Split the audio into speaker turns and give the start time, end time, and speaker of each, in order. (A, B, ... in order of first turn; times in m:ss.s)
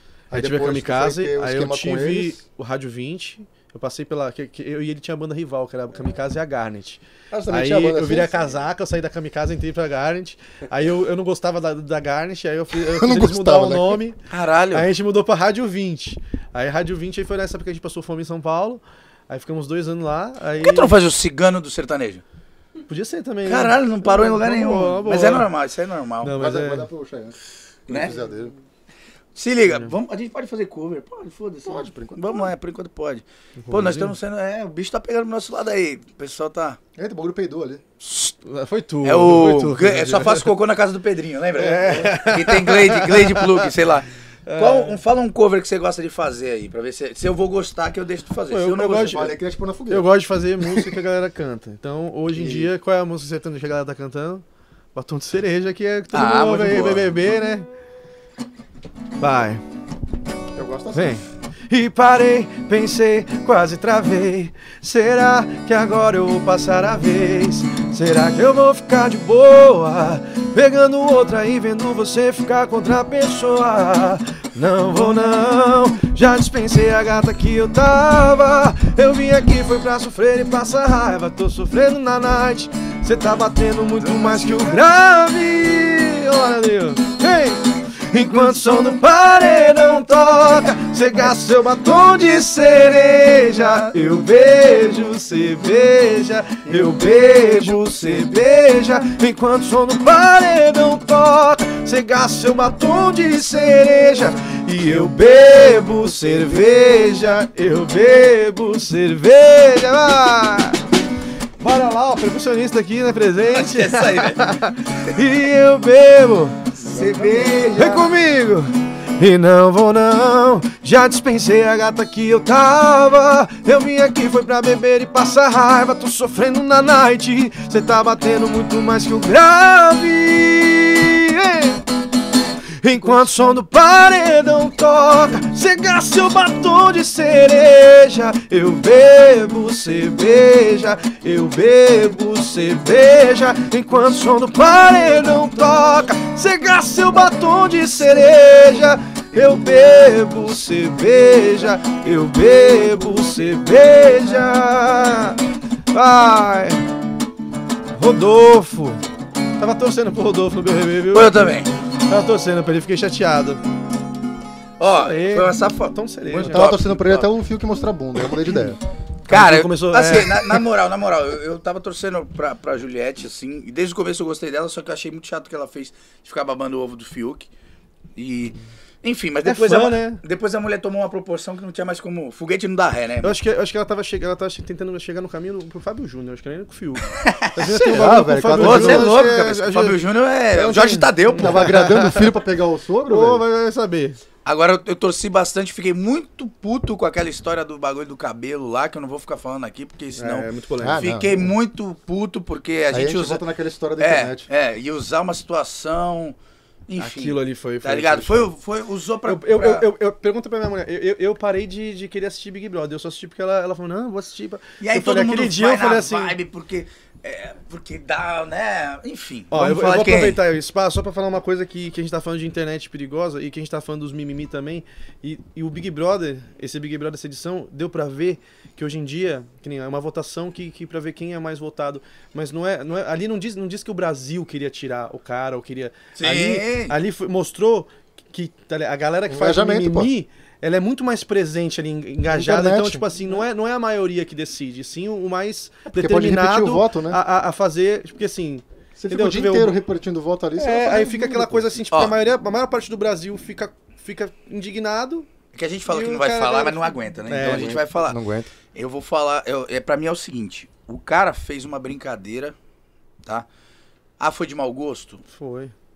0:00.3-0:02.4 A
0:00.3-0:14.2 B
0:07.3-0:08.5 A
0:12.9-0:14.0 A
0:14.3-0:14.9 C
0:14.7-0:20.9 B
0:20.6-0:22.2 C
0:22.9-0:25.5 B
0:23.4-0:26.3 C
0:26.2-0:26.9 B
0:26.4-0:27.3 A
0:27.9-0:28.1 C
0:27.9-0:28.5 A
0:29.3-0:36.8 C
0:31.6-0:32.5 A
0:33.6-0:34.1 B
0:37.0-0:37.8 A
0:38.0-0:38.3 C
0:38.4-0:40.5 B
0:39.0-0:49.3 C
0:41.6-0:43.7 B
0:44.4-0:45.0 B
0:48.5-0:49.3 B
0:49.0-0:50.1 A
0:49.9-0:57.7 B
0:52.3-0:52.7 A
0:56.1-0:57.2 C
0:59.2-0:59.6 B
1:00.5-1:01.2 A
1:00.9-1:50.8 B
1:24.0-1:24.7 C
1:51.6-1:56.6 B
1:53.4-1:55.1 C
1:56.8-1:58.1 C
1:56.9-1:57.8 A
1:57.7-2:11.8 B
2:12.8-2:36.9 B
2:37.9-2:39.0 B
2:39.6-2:43.6 B
2:41.1-2:41.7 C
2:44.8-2:47.3 C
2:44.9-2:46.7 B
2:46.4-2:48.8 A
2:49.3-2:57.5 C
2:49.3-2:50.6 B
2:58.2-3:03.4 C
2:59.4-3:00.2 B
3:03.2-3:10.0 B
3:07.1-3:07.5 C
3:07.7-3:09.1 A
3:08.6-3:11.7 C
3:10.5-3:12.3 B
3:11.3-3:13.4 A
3:13.1-3:14.2 B
3:14.4-3:23.4 C
3:20.1-3:21.1 B
3:20.8-3:21.5 A
3:22.9-3:24.5 A
3:24.0-3:26.4 C
3:26.9-3:29.9 C
3:27.0-3:28.5 B
3:29.2-3:36.4 B
3:34.8-3:40.4 C
3:39.5-4:09.8 B
3:56.2-3:56.9 C
3:59.3-4:00.1 A
4:02.3-4:03.0 A
4:05.9-4:07.2 A
4:09.0-4:11.8 A
4:10.6-4:15.3 B
4:15.5-4:18.2 C
4:15.9-4:17.8 B
4:17.4-4:18.5 A
4:18.7-4:22.5 C
4:24.2-4:25.2 C
4:25.3-4:25.7 B